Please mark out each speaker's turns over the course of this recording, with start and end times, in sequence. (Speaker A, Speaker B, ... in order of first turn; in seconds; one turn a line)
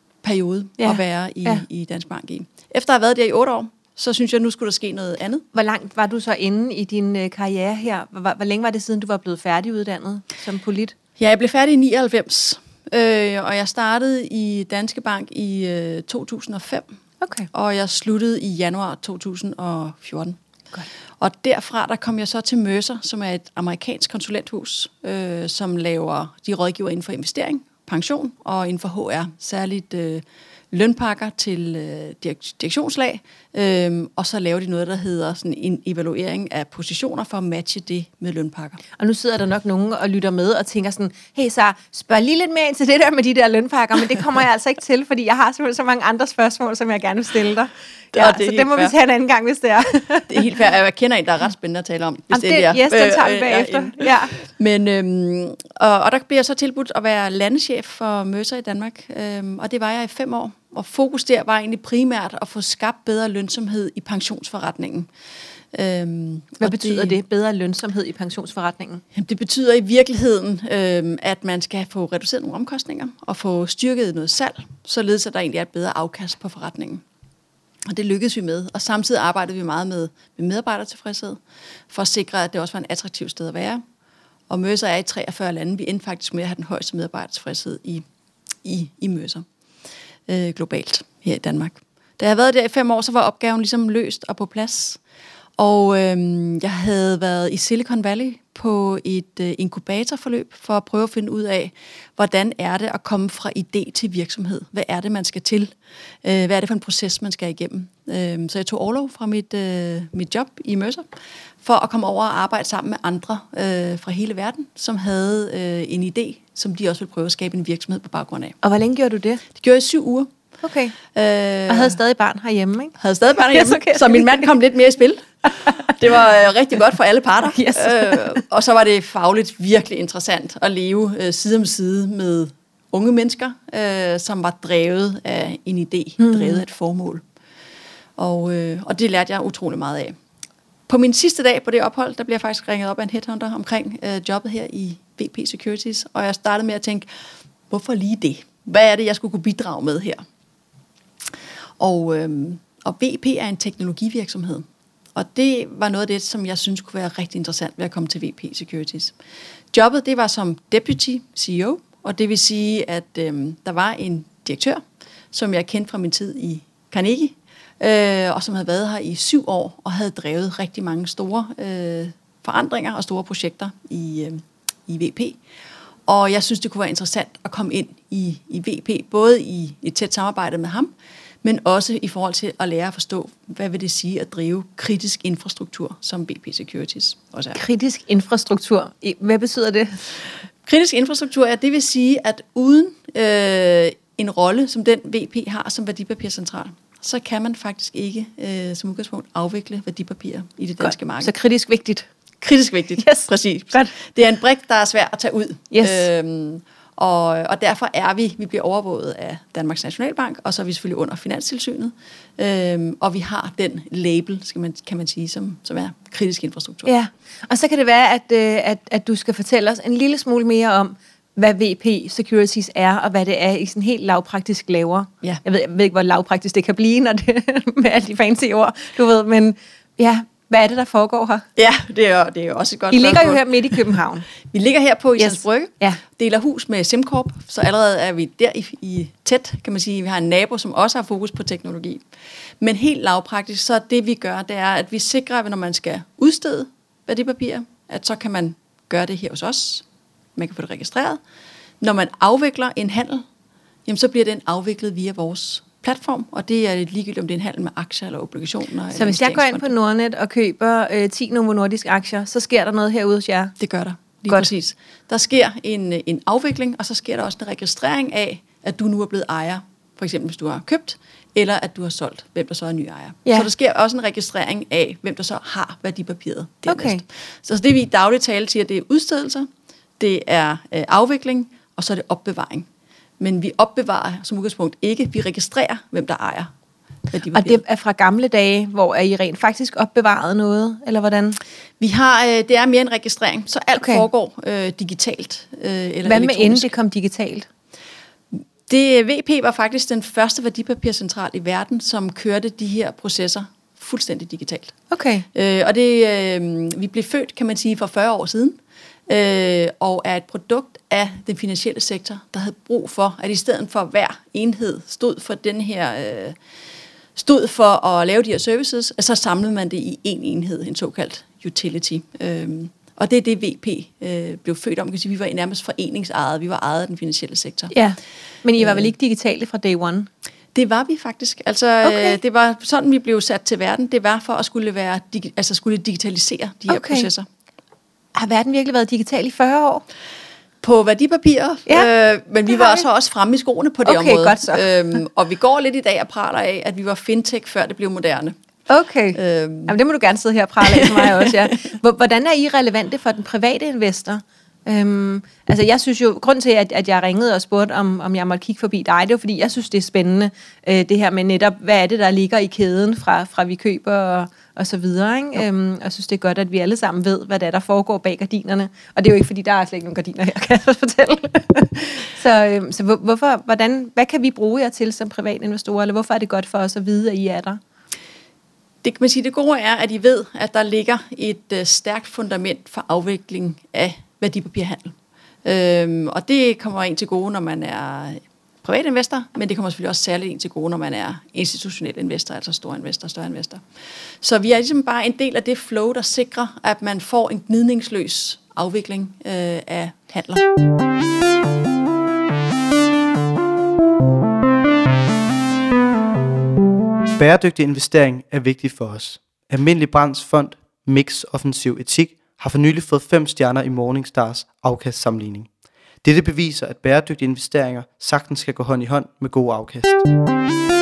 Speaker A: 0.2-5.5
Speaker B: 0.8-1.6
Speaker B: 5.5-10.9
Speaker A: 11.2-16.9
Speaker B: 17.2-17.5
Speaker A: 17.5-20.4
Speaker A: 21.2-38.8
Speaker B: 39.0-50.4
Speaker A: 48.1-48.9
Speaker A: 50.3-65.1
Speaker B: 52.3-54.3
Speaker A: 65.7-67.2
Speaker B: 66.6-69.0
Speaker A: 69.1-77.0
Speaker A: 77.8-83.8
Speaker A: 84.5-88.0
Speaker A: 88.6-89.5
Speaker A: 90.3-95.0
Speaker A: 95.6-111.1
Speaker A: 111.6-118.6
Speaker B: 118.6-119.4
Speaker A: 119.5-120.3
Speaker B: 120.6-121.0
Speaker A: 121.1-122.0
Speaker B: 121.7-122.9
Speaker A: 123.0-137.2
Speaker B: 123.5-124.5
Speaker B: 125.6-125.9
Speaker B: 127.5-128.4
Speaker B: 136.2-136.6
Speaker A: 138.2-140.2
Speaker A: 140.9-147.1
Speaker A: 147.7-150.2
Speaker A: 151.8-159.2
Speaker A: 159.7-175.4
Speaker A: 176.1-180.9
Speaker A: 181.4-187.6
Speaker B: 187.5-190.0
Speaker A: 190.7-201.3
Speaker B: 200.8-202.1
Speaker A: 202.4-216.9
Speaker B: 203.0-203.9
Speaker B: 205.7-206.1
Speaker B: 216.8-231.5
Speaker A: 231.6-233.8
Speaker B: 232.9-234.3
Speaker A: 234.5-242.0
Speaker B: 235.2-236.0
Speaker A: 242.6-249.8
Speaker A: 250.3-251.2
Speaker A: 251.8-253.3
Speaker A: 253.8-259.7
Speaker B: 258.9-263.5
Speaker A: 263.6-279.5
Speaker B: 276.6-277.0
Speaker A: 280.0-282.7
Speaker A: 283.2-286.5
Speaker A: 287.1-287.6
Speaker B: 287.3-291.4
Speaker A: 291.8-296.7
Speaker B: 293.8-294.1
Speaker B: 296.1-297.5
Speaker A: 298.3-304.8
Speaker B: 304.9-305.2
Speaker A: 305.3-316.4
Speaker A: 317.2-327.7
Speaker B: 327.7-330.1
Speaker A: 328.6-328.9
Speaker A: 330.5-337.3
Speaker B: 331.8-332.2
Speaker B: 336.7-337.1
Speaker B: 338.1-339.8
Speaker A: 340.6-348.4
Speaker B: 342.6-342.8
Speaker B: 343.8-344.7
Speaker B: 348.7-377.6
Speaker A: 349.1-349.8
Speaker A: 350.6-351.4
Speaker A: 378.8-393.6
Speaker A: 394.2-400.4
Speaker C: 407.2-415.5
Speaker C: 416.0-420.0